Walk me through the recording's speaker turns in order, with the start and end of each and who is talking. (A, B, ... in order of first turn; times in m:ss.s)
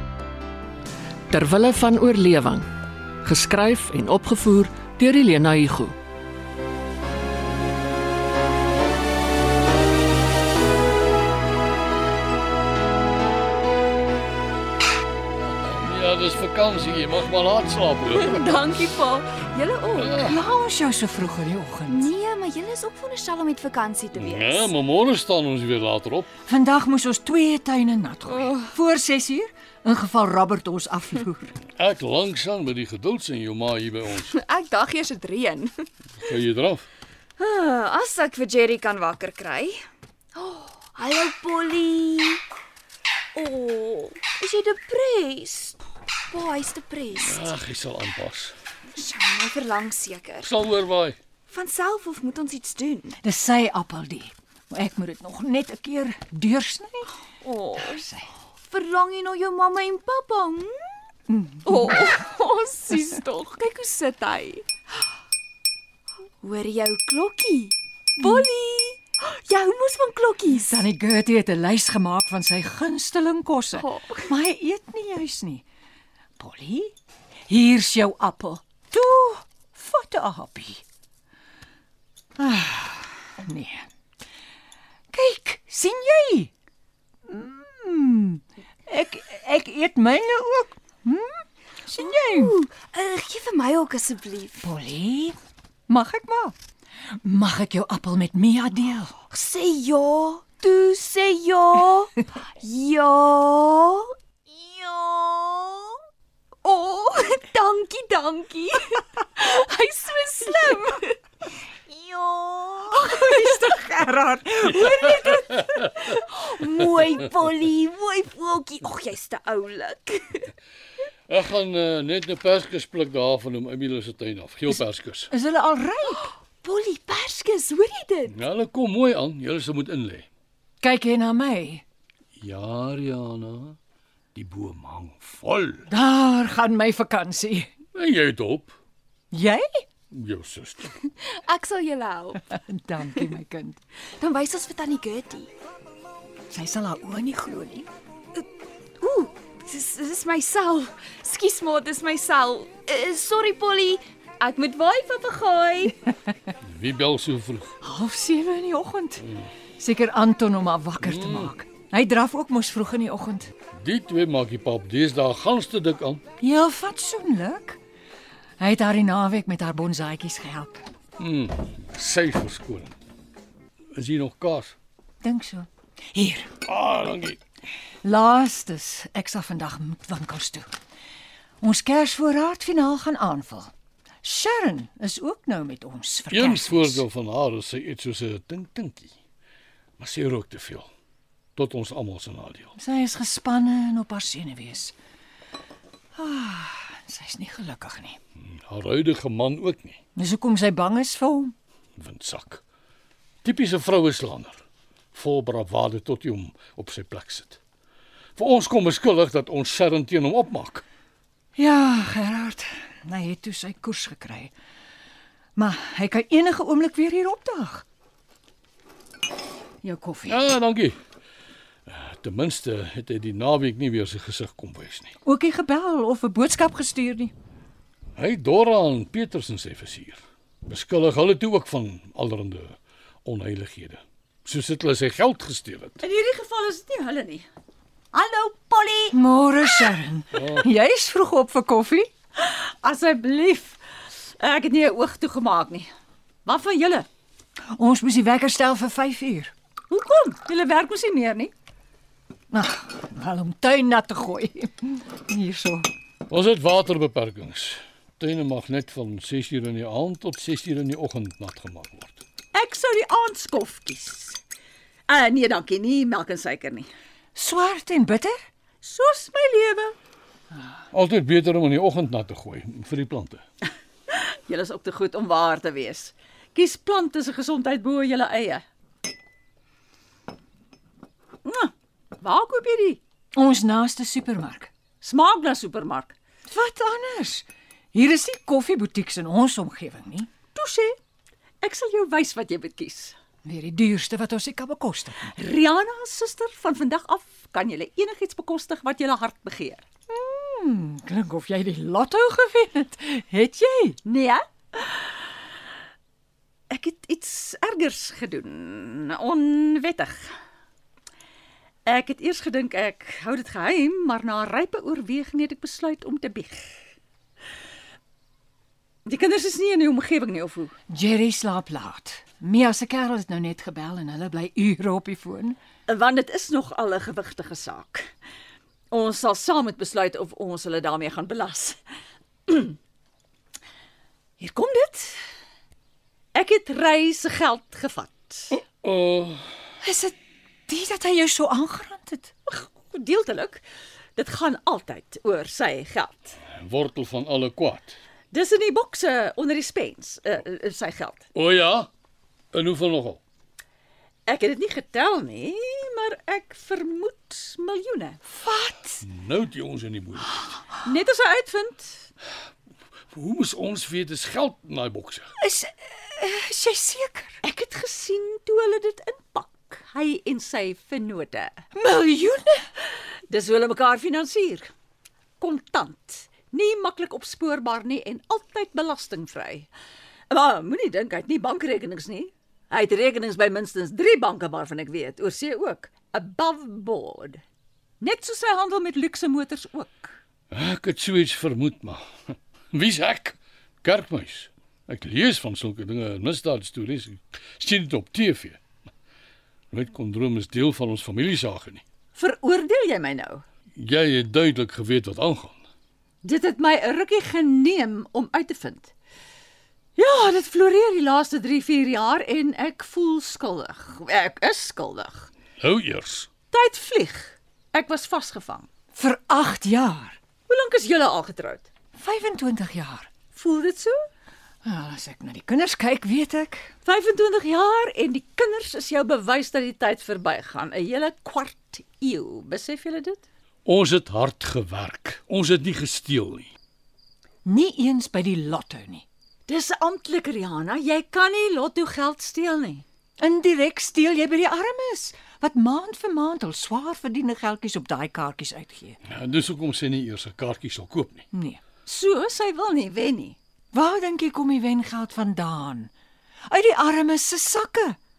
0:01.3-0:02.7 A
0:03.2-0:05.9 A
0:15.4-0:18.6 B
0:18.1-0:20.4 C
0:19.9-0:20.4 B
0:20.2-0:22.1 D
0:21.9-0:24.7 C
0:24.1-0:26.3 B
0:26.4-0:31.5 D
0:28.3-0:28.7 C
0:31.8-0:34.3 B
0:34.2-0:35.9 C
0:36.2-0:36.9 B
0:37.4-0:39.8 C
0:40.3-0:42.4 C
0:43.3-0:47.5 C
0:47.1-0:48.5 B
0:48.9-0:50.5 C
0:50.4-0:51.2 B
0:51.5-0:53.2 C
0:53.2-0:57.2 D
0:57.4-0:58.1 C
0:57.8-0:58.3 D
0:58.6-1:01.0 C
1:01.3-1:01.9 D
1:01.6-1:04.6 C
1:06.4-1:10.8 C
1:08.2-1:08.5 D
1:10.5-1:15.6 D
1:13.7-1:14.3 C
1:16.4-1:16.9 D
1:17.5-1:20.8 D
1:22.4-1:23.8 D
1:25.1-1:26.5 D
1:27.3-1:32.5 D
1:31.9-1:34.7 C
1:34.6-1:35.4 D
1:35.9-1:36.5 D
1:37.2-1:39.2 D
1:39.3-1:46.0 C
1:46.6-1:51.2 C
1:51.7-2:00.5 C
2:01.3-2:05.3 B
2:05.3-2:06.3 D
2:06.1-2:08.4 C
2:08.3-2:10.3 B
2:10.8-2:11.8 D
2:12.4-2:13.8 B
2:14.3-2:15.9 B
2:15.9-2:17.7 D
2:17.9-2:18.7 B
2:19.3-2:19.8 D
2:20.1-2:20.9 B
2:21.1-2:22.4 C
2:22.4-2:23.8 D
2:24.2-2:25.5 C
2:26.5-2:27.9 D
2:29.0-2:36.1 C
2:36.6-2:37.7 B
2:37.8-2:43.5 D
2:41.0-2:41.5 B
2:43.7-2:46.2 B
2:46.4-2:47.8 D
2:48.6-2:50.9 D
2:51.2-2:52.9 B
2:53.9-2:54.8 B
2:55.2-2:56.5 D
2:56.6-2:57.4 B
2:58.0-3:00.7 D
3:01.6-3:03.7 D
3:04.2-3:07.0 D
3:06.3-3:09.1 B
3:10.0-3:10.9 B
3:11.6-3:12.7 B
3:12.8-3:14.9 D
3:16.2-3:18.2 D
3:18.4-3:20.0 B
3:20.2-3:21.5 D
3:22.0-3:22.6 B
3:23.4-3:24.6 B
3:25.1-3:27.6 B
3:28.4-3:30.8 B
3:31.6-3:34.5 D
3:35.6-3:37.8 D
3:39.8-3:40.4 D
3:40.3-3:41.0 B
3:41.8-3:45.1 B
3:45.2-3:47.3 D
3:48.2-3:56.0 B
3:56.0-3:57.5 E
3:58.1-3:59.2 E
3:59.1-4:02.1 D
4:00.3-4:00.7 B
4:02.4-4:03.8 E
4:04.4-4:05.9 E
4:06.4-4:07.1 E
4:07.7-4:09.5 D
4:09.9-4:11.5 E
4:12.5-4:15.9 D
4:16.3-4:22.2 B
4:22.5-4:24.4 E
4:25.1-4:26.9 E
4:27.3-4:28.4 D
4:28.8-4:29.9 E
4:30.9-4:33.4 B
4:34.1-4:38.6 E
4:41.4-4:43.0 E
4:43.3-4:44.7 D
4:45.0-4:46.2 E
4:46.4-4:50.3 D
4:50.5-4:51.0 E
4:51.6-4:53.2 E
4:53.4-4:55.3 D
4:55.2-4:59.8 E
5:00.1-5:04.0 D
5:04.0-5:05.2 E
5:06.7-5:10.3 E
5:11.8-5:16.8 E
5:19.0-5:20.7 E
5:20.9-5:25.6 D
5:25.9-5:28.1 E
5:28.9-5:31.8 E
5:32.5-5:32.8 E
5:34.4-5:35.2 E
5:36.3-5:38.5 E
5:38.5-5:39.5 B
5:39.8-5:40.1 D
5:40.7-5:42.3 D
5:42.5-5:43.6 E
5:44.2-5:46.4 E
5:46.5-5:47.9 B
5:48.3-5:51.2 E
5:51.3-5:51.9 B
5:52.5-5:53.2 B
5:54.2-5:58.2 E
5:58.3-5:59.0 D
5:59.0-6:00.6 B
6:00.8-6:02.1 E
6:03.1-6:05.3 B
6:05.4-6:07.4 D
6:07.4-6:11.6 E
6:11.7-6:12.6 D
6:13.3-6:14.7 E
6:15.4-6:19.7 E
6:20.3-6:27.4 E
6:28.0-6:30.1 E
6:30.5-6:32.0 B
6:32.7-6:38.6 B
6:39.7-6:41.8 B
6:42.1-6:43.4 E
6:43.8-6:45.6 B
6:46.2-6:48.9 E
6:50.0-6:55.3 E
6:55.6-6:56.3 B
6:56.5-6:58.7 E
6:58.9-7:00.2 D
7:00.5-7:01.7 E
7:01.9-7:03.1 D
7:03.3-7:04.0 E
7:04.6-7:06.7 D
7:06.8-7:13.2 E
7:13.6-7:16.5 B
7:17.4-7:19.0 D
7:19.5-7:22.8 E
7:23.2-7:29.0 D
7:29.1-7:31.2 B
7:31.3-7:31.6 D
7:31.8-7:33.4 E
7:33.7-7:35.9 D
7:36.5-7:38.0 D